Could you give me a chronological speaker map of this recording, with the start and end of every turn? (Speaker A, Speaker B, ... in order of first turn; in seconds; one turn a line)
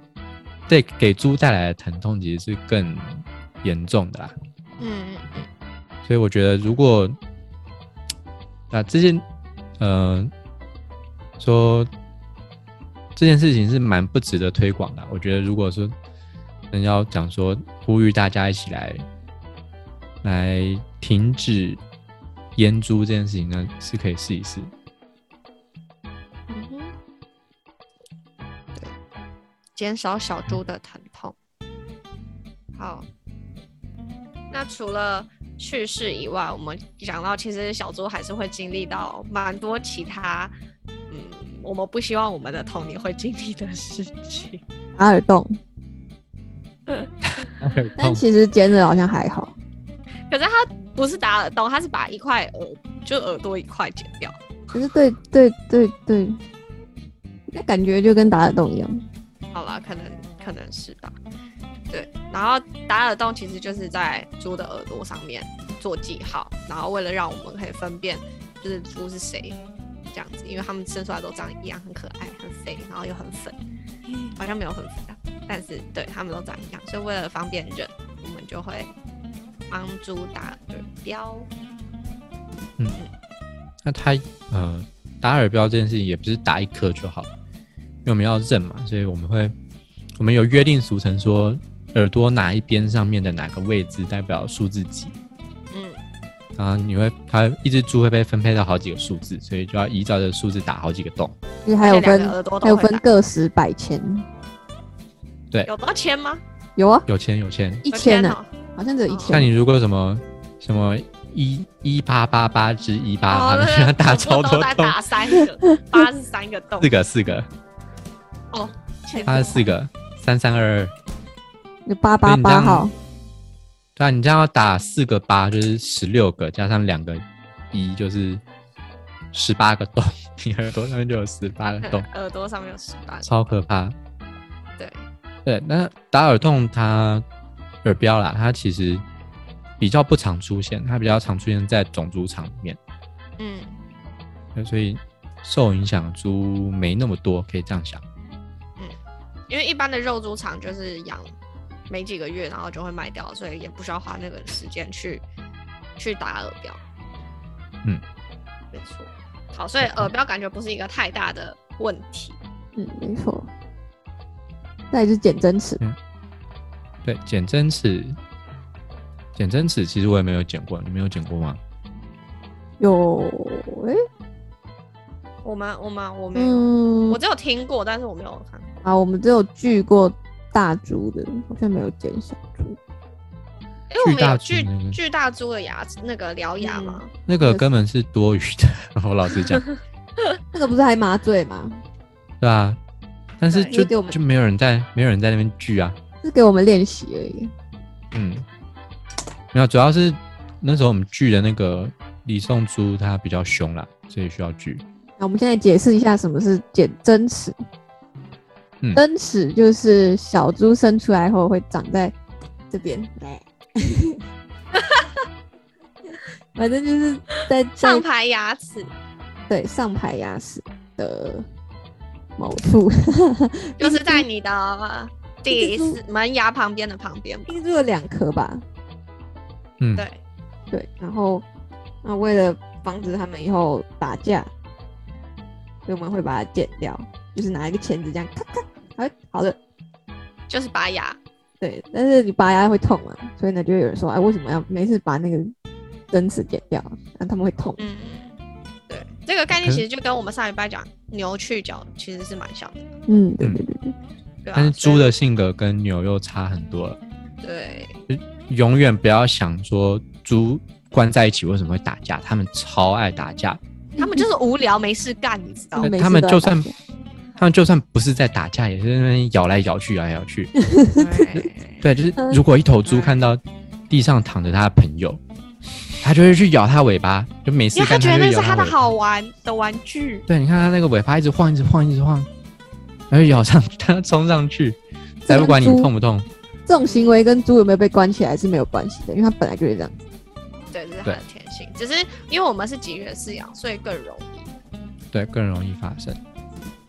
Speaker A: 0.7-4.3
Speaker B: 4.8-5.5
Speaker A: 6.0-7.2
Speaker A: 8.7-9.2
Speaker A: 9.8-10.3
Speaker A: 11.4-11.9
Speaker A: 13.2-15.9
Speaker A: 16.7-19.0
Speaker A: 20.2-21.8
Speaker A: 22.6-24.7
Speaker B: 26.5-26.9
Speaker B: 29.8-31.3
Speaker B: 32.8-33.0
Speaker B: 34.5-40.5
Speaker B: 41.1-44.6
Speaker C: 45.0-45.6
Speaker A: 47.3-48.2
Speaker C: 48.0-49.5
Speaker B: 50.3-54.4
Speaker C: 54.7-56.4
Speaker C: 57.5-59.0
Speaker B: 59.5-61.1
Speaker B: 61.9-69.6
Speaker B: 70.1-73.6
Speaker B: 74.2-78.9
Speaker B: 79.7-81.5
Speaker A: 83.8-87.3
Speaker A: 88.0-89.5
Speaker A: 90.2-95.1
Speaker B: 95.7-96.0
Speaker A: 96.6-101.3
Speaker C: 101.6-104.2
Speaker B: 101.8-103.0
Speaker B: 105.6-106.4
Speaker C: 106.8-107.1
Speaker A: 107.1-107.8
Speaker C: 107.8-109.5
Speaker B: 107.9-108.5
Speaker B: 109.1-109.4
Speaker A: 109.3-115.0
Speaker B: 113.3-116.9
Speaker A: 116.8-117.5
Speaker B: 118.5-119.7
Speaker A: 119.3-120.9
Speaker C: 121.8-122.9
Speaker A: 122.2-122.9
Speaker A: 124.0-128.4
Speaker A: 129.3-132.1
Speaker B: 131.8-133.3
Speaker A: 133.2-133.9
Speaker B: 134.8-135.1
Speaker A: 135.4-137.2
Speaker A: 137.8-139.0
Speaker A: 139.8-142.8
Speaker B: 143.4-143.7
Speaker A: 144.5-148.0
Speaker B: 149.5-151.3
Speaker B: 151.9-155.2
Speaker B: 156.0-156.8
Speaker B: 158.7-162.4
Speaker A: 159.8-160.1
Speaker C: 162.8-163.5
Speaker C: 164.9-165.8
Speaker A: 167.0-168.2
Speaker A: 169.3-171.6
Speaker C: 172.8-174.0
Speaker B: 175.4-178.7
Speaker C: 176.3-177.2
Speaker C: 178.8-182.8
Speaker B: 183.9-187.1
Speaker A: 184.0-185.0
Speaker C: 186.6-187.6
Speaker A: 187.3-189.7
Speaker C: 190.5-191.8
Speaker A: 192.4-192.8
Speaker A: 193.4-196.0
Speaker B: 193.5-193.8
Speaker C: 193.7-194.2
Speaker C: 196.2-197.5
Speaker A: 198.1-198.4
Speaker A: 199.5-204.8
Speaker C: 205.2-207.6
Speaker C: 208.9-212.1
Speaker C: 212.7-214.2
Speaker B: 214.8-215.1
Speaker C: 216.5-218.0
Speaker B: 217.8-218.9
Speaker C: 219.5-221.5
Speaker C: 222.4-224.2
Speaker B: 223.8-227.6
Speaker C: 225.5-226.0
Speaker C: 227.5-228.6
Speaker A: 229.8-230.1
Speaker C: 230.7-231.4
Speaker C: 232.0-234.5
Speaker C: 235.8-239.6
Speaker B: 240.5-241.2
Speaker C: 241.6-245.5
Speaker C: 246.1-247.8
Speaker B: 247.8-248.3
Speaker B: 248.9-252.9
Speaker A: 249.5-249.8
Speaker C: 253.1-253.9
Speaker B: 254.4-255.1
Speaker A: 254.5-257.0
Speaker B: 257.4-258.0
Speaker A: 258.1-263.6
Speaker C: 263.9-264.2
Speaker B: 264.0-265.9
Speaker C: 265.8-266.7
Speaker A: 265.8-266.7
Speaker A: 267.4-270.5
Speaker C: 270.6-271.3
Speaker B: 270.9-271.9
Speaker A: 271.8-275.2
Speaker B: 272.9-273.1
Speaker A: 276.0-278.8
Speaker B: 277.7-280.2
Speaker A: 280.3-282.3
Speaker A: 283.1-286.3
Speaker C: 285.2-285.9
Speaker C: 286.7-290.0
Speaker B: 286.9-287.2
Speaker B: 290.7-294.5
Speaker A: 295.1-296.2